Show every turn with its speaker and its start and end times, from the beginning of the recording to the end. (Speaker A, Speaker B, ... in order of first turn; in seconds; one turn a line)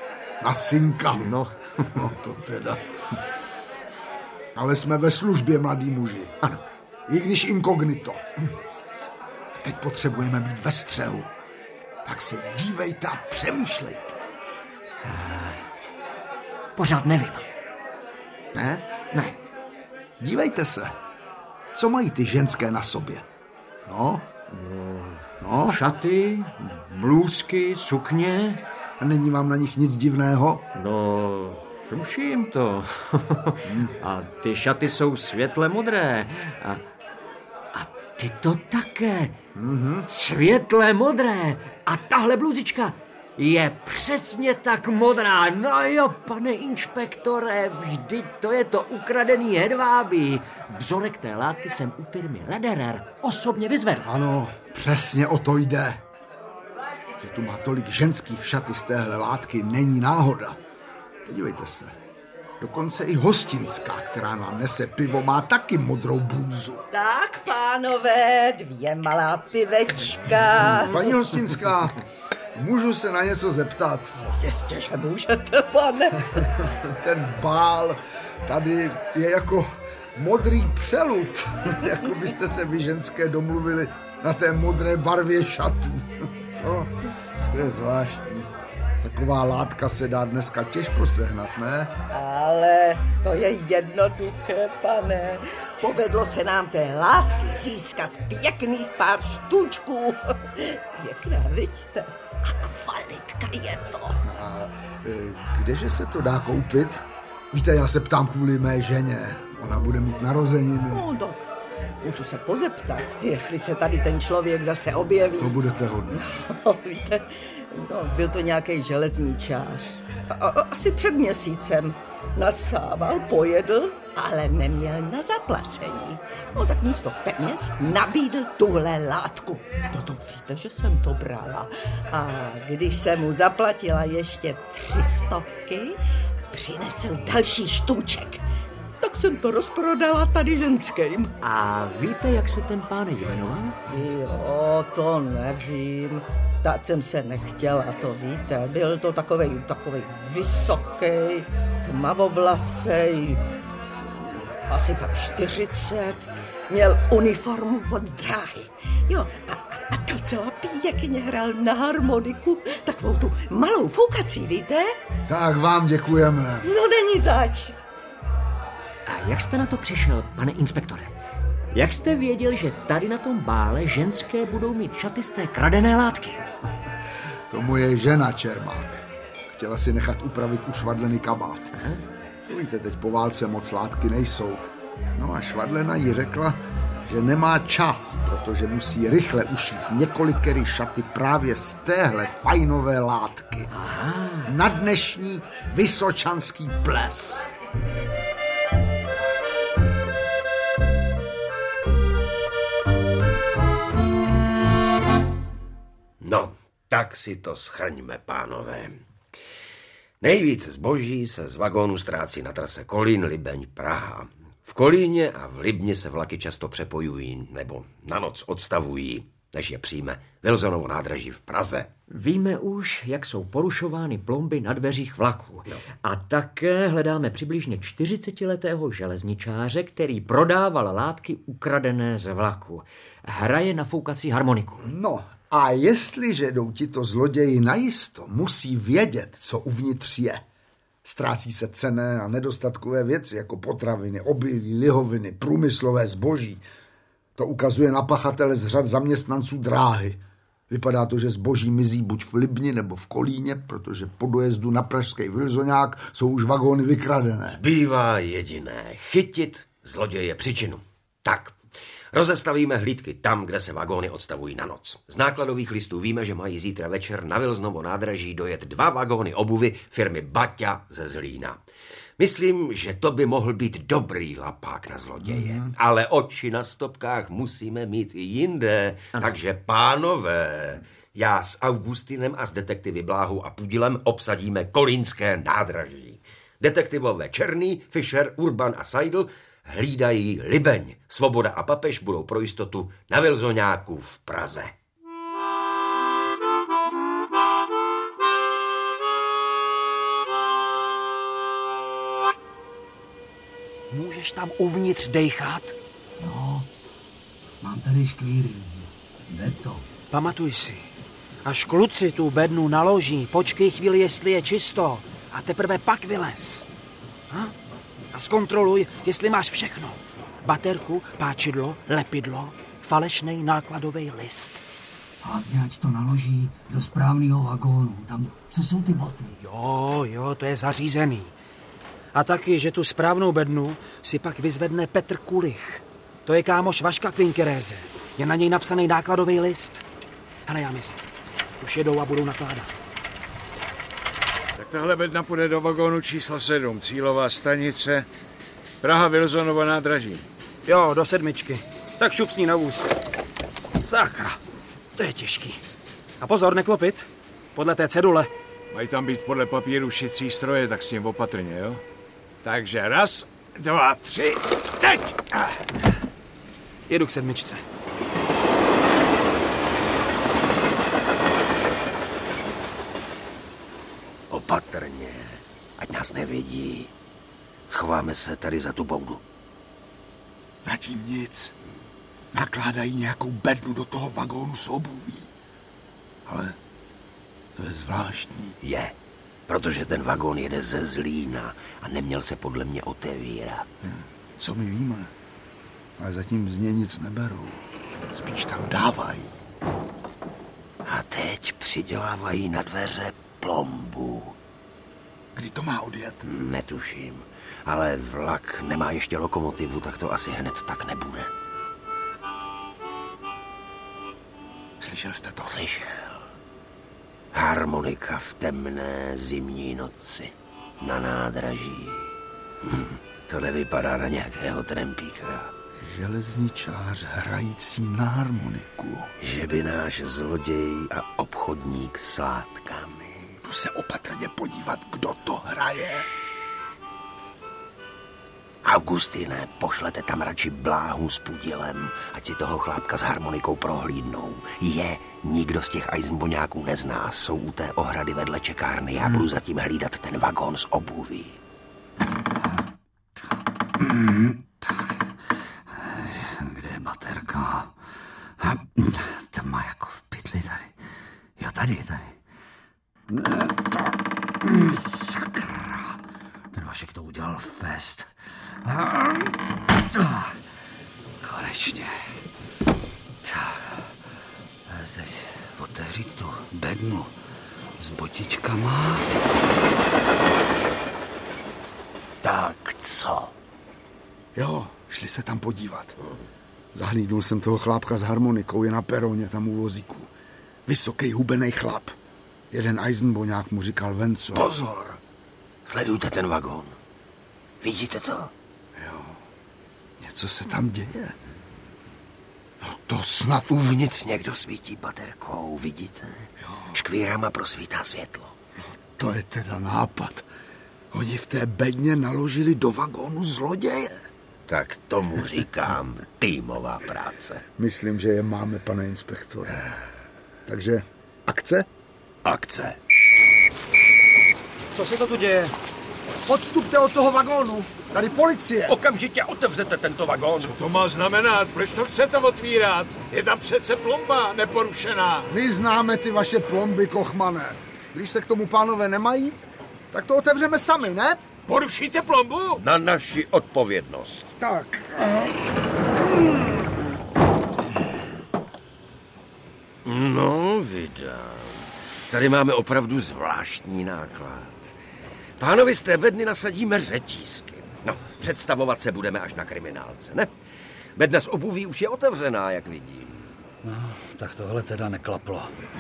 Speaker A: 0.4-1.3
Speaker B: 1.2-2.0
Speaker A: 1.9-2.8
Speaker A: 4.5-6.3
Speaker A: 7.1-8.2
Speaker A: 9.6-11.3
Speaker A: 12.1-14.2
Speaker B: 15.0-15.7
Speaker B: 16.8-17.5
Speaker A: 18.5-18.9
Speaker A: 20.2-21.0
Speaker A: 21.7-23.3
Speaker A: 23.9-24.3
Speaker B: 24.5-28.6
Speaker A: 25.4-25.8
Speaker A: 29.0-30.7
Speaker B: 30.8-36.8
Speaker A: 33.7-33.9
Speaker B: 37.7-39.4
Speaker A: 39.5-40.1
Speaker B: 40.1-54.1
Speaker A: 54.0-56.0
Speaker A: 57.2-60.6
Speaker A: 61.2-62.0
Speaker A: 62.6-66.8
Speaker C: 66.9-71.2
Speaker A: 70.6-72.0
Speaker A: 72.5-74.2
Speaker C: 74.2-76.5
Speaker A: 76.4-86.9
Speaker A: 87.5-88.5
Speaker A: 89.0-91.9
Speaker C: 92.1-104.2
Speaker A: 104.2-111.1
Speaker C: 110.9-115.6
Speaker A: 115.4-116.3
Speaker C: 116.2-136.0
Speaker C: 136.5-138.4
Speaker C: 139.0-141.3
Speaker B: 141.4-143.8
Speaker C: 143.9-153.4
Speaker C: 154.2-164.9
Speaker A: 165.3-166.7
Speaker C: 166.6-167.8
Speaker B: 169.1-171.1
Speaker B: 171.7-176.5
Speaker A: 177.5-179.0
Speaker A: 179.5-181.7
Speaker B: 181.8-182.0
Speaker A: 182.5-193.7
Speaker B: 193.7-194.6
Speaker A: 194.5-197.5
Speaker D: 206.2-209.0
Speaker D: 210.2-221.9
Speaker B: 222.1-234.9
Speaker A: 234.8-240.4
Speaker A: 241.0-246.6
Speaker A: 247.4-257.6
Speaker D: 257.5-261.6
Speaker D: 262.1-271.6
Speaker D: 272.2-294.7
Speaker E: 303.9-305.8
Speaker F: 306.2-306.7
Speaker F: 307.6-309.9
Speaker E: 310.1-310.9
Speaker E: 311.4-316.7
Speaker E: 318.1-324.6
Speaker F: 325.2-329.3
Speaker E: 329.4-331.3
Speaker E: 332.1-339.8
Speaker E: 340.5-341.0
Speaker E: 341.6-342.8
Speaker G: 344.6-348.1
Speaker G: 348.8-350.3
Speaker E: 350.7-352.9
Speaker E: 353.8-354.4
Speaker E: 354.9-355.6
Speaker E: 356.2-358.3
Speaker G: 358.7-361.8
Speaker G: 362.4-365.6
Speaker E: 366.9-367.6
Speaker D: 374.3-376.9
Speaker D: 377.7-379.2
Speaker A: 380.6-381.5
Speaker A: 382.3-385.3
Speaker A: 386.3-386.6
Speaker A: 387.6-388.6
Speaker D: 388.6-388.9
Speaker D: 389.5-393.7
Speaker A: 393.9-395.1
Speaker A: 396.0-399.3
Speaker D: 400.9-404.4
Speaker A: 405.4-406.2
Speaker D: 406.2-411.3
Speaker A: 414.8-415.5
Speaker D: 415.4-416.3
Speaker D: 417.3-425.5
Speaker A: 425.8-429.1
Speaker D: 429.2-433.4
Speaker A: 433.4-436.1
Speaker D: 438.6-451.4
Speaker F: 453.8-455.0
Speaker F: 455.7-457.8
Speaker F: 458.4-460.7
Speaker F: 461.4-462.2
Speaker F: 463.1-466.0
Speaker F: 466.5-468.1
Speaker F: 468.6-470.4
Speaker F: 471.2-472.1
Speaker F: 473.2-473.9
Speaker F: 474.7-477.1
Speaker F: 477.8-479.1
Speaker D: 482.2-483.3
Speaker A: 484.4-486.0
Speaker A: 486.7-490.1
Speaker A: 490.7-492.0
Speaker A: 492.5-494.6
Speaker D: 494.3-495.0
Speaker D: 495.7-496.8
Speaker D: 497.6-498.3
Speaker A: 498.8-499.2
Speaker A: 500.0-501.1
Speaker A: 502.6-503.8
Speaker D: 503.5-508.3
Speaker A: 509.0-510.3
Speaker A: 510.9-514.0
Speaker D: 514.5-517.4
Speaker A: 517.6-519.6
Speaker A: 520.5-521.7
Speaker D: 522.2-522.8
Speaker E: 524.7-525.5
Speaker A: 526.3-528.8
Speaker D: 528.7-530.6
Speaker G: 530.4-535.3
Speaker A: 535.3-539.4
Speaker A: 539.9-541.2
Speaker G: 541.5-542.6
Speaker D: 542.6-544.3
Speaker A: 544.4-545.5
Speaker A: 546.0-546.8
Speaker D: 549.9-554.7
Speaker D: 555.4-560.3
Speaker D: 561.0-563.3
Speaker F: 563.6-565.5